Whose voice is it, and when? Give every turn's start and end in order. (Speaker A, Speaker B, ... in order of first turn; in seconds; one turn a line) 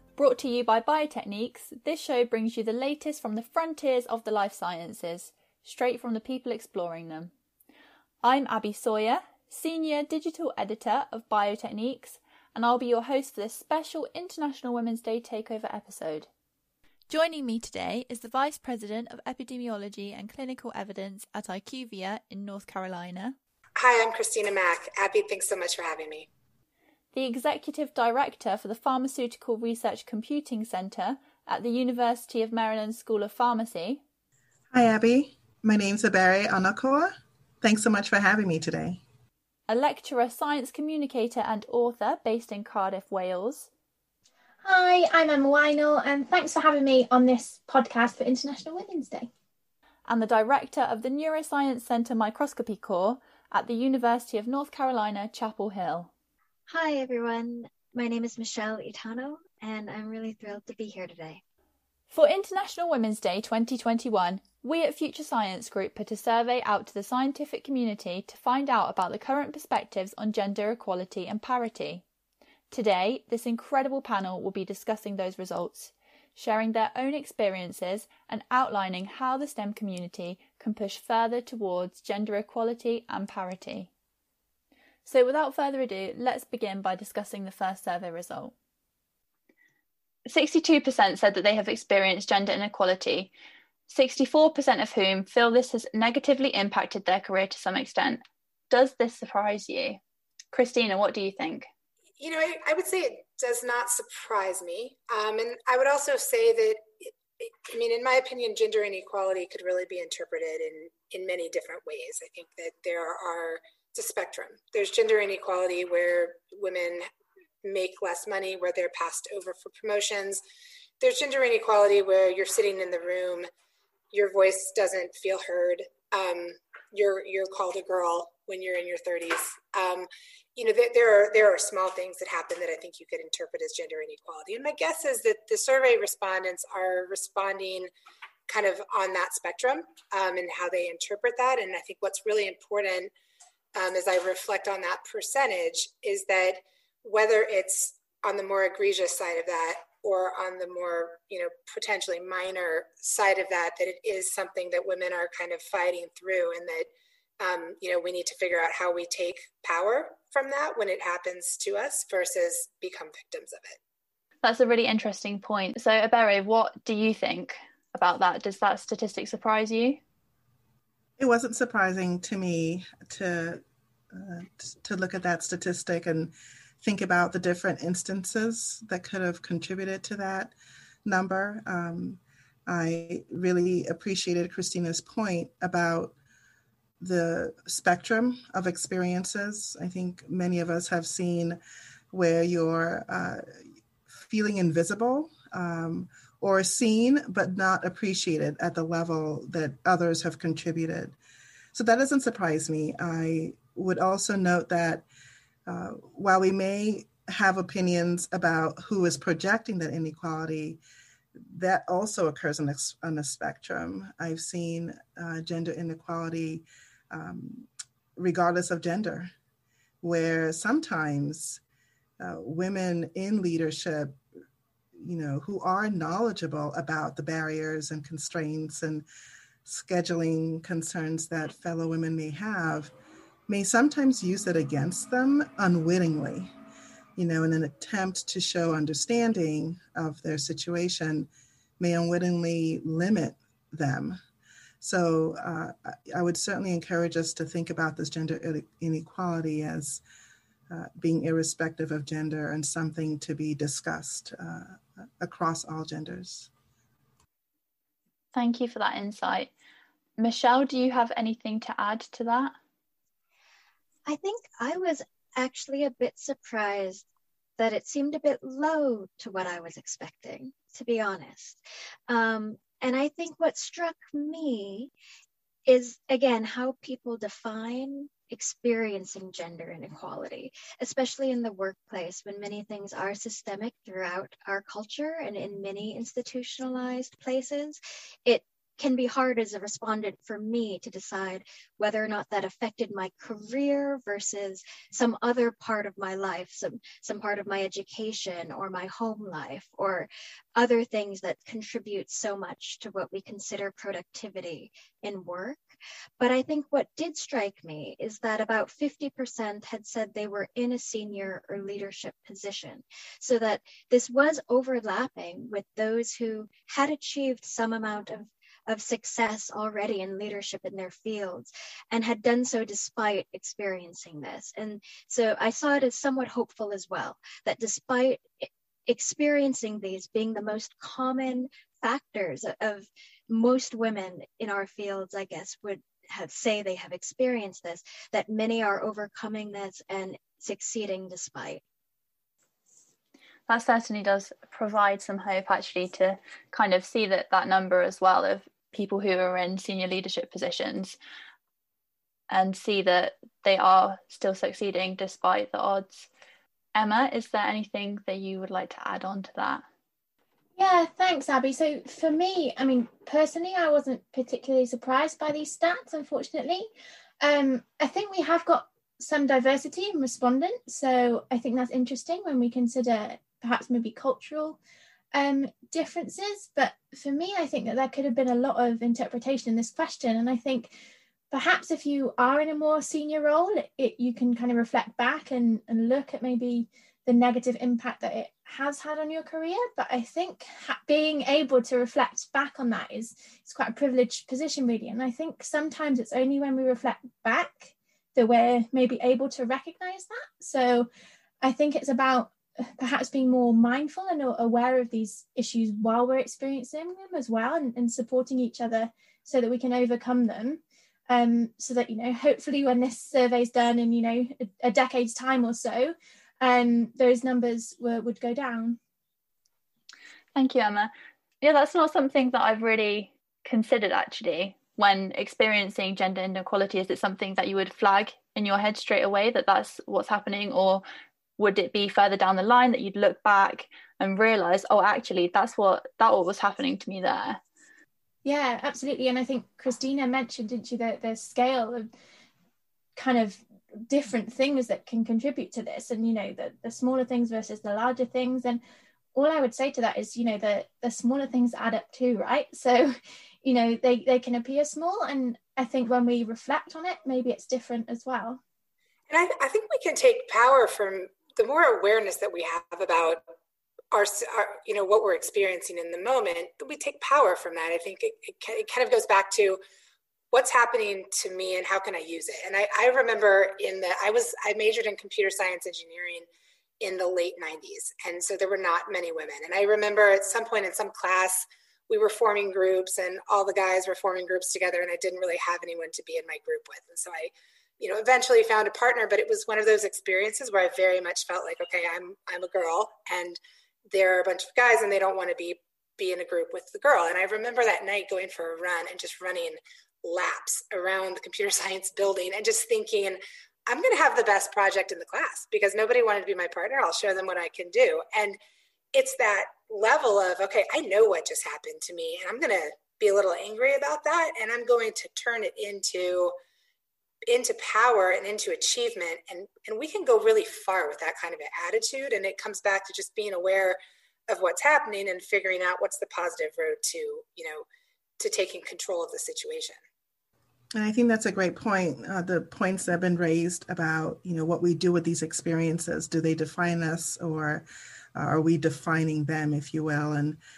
Speaker A: 0.2-7.3
Speaker A: 8.2-16.3
Speaker A: 17.1-23.4
Speaker B: 23.8-26.3
Speaker A: 27.1-34.0
Speaker C: 34.7-39.0
Speaker A: 39.7-43.7
Speaker D: 44.6-49.3
Speaker A: 50.1-56.1
Speaker E: 56.7-61.4
Speaker A: 62.1-72.0
Speaker A: 72.7-83.9
Speaker A: 85.0-88.5
Speaker A: 90.3-93.3
Speaker A: 93.9-100.0
Speaker A: 100.5-101.7
Speaker B: 102.2-117.1
Speaker B: 117.6-120.4
Speaker B: 121.0-123.5
Speaker B: 124.1-137.9
Speaker B: 138.5-143.1
Speaker B: 143.8-163.8
Speaker A: 164.4-170.0
Speaker C: 171.2-180.5
Speaker C: 181.1-186.1
Speaker C: 187.0-191.6
Speaker C: 192.1-193.4
Speaker C: 194.3-201.2
Speaker C: 201.7-205.0
Speaker C: 205.7-210.8
Speaker C: 211.5-219.3
Speaker C: 220.0-221.6
Speaker C: 222.2-224.2
Speaker C: 225.0-229.1
Speaker C: 229.7-232.9
Speaker C: 233.5-236.5
Speaker C: 237.2-244.2
Speaker C: 244.8-250.0
Speaker C: 250.7-256.5
Speaker A: 258.3-259.5
Speaker A: 260.2-262.6
Speaker E: 264.1-267.1
Speaker E: 267.6-274.9
Speaker E: 275.7-305.6
Speaker E: 306.2-341.6
Speaker A: 343.5-351.0
Speaker A: 352.3-356.1
Speaker A: 356.8-359.6
Speaker D: 360.6-366.7
Speaker D: 367.2-374.6
Speaker D: 375.1-380.8
Speaker D: 381.3-400.9
Speaker D: 401.4-418.8
Speaker A: 420.4-430.8
Speaker A: 431.4-437.4
Speaker D: 438.2-441.9
Speaker D: 443.0-448.6
Speaker D: 449.1-452.9
Speaker D: 453.4-458.4
Speaker B: 459.1-463.2
Speaker B: 463.9-469.6
Speaker B: 470.3-476.3
Speaker B: 476.8-508.4
Speaker B: 508.9-516.3
Speaker B: 517.3-527.6
Speaker B: 528.2-529.8
Speaker C: 530.8-537.6
Speaker C: 538.2-540.4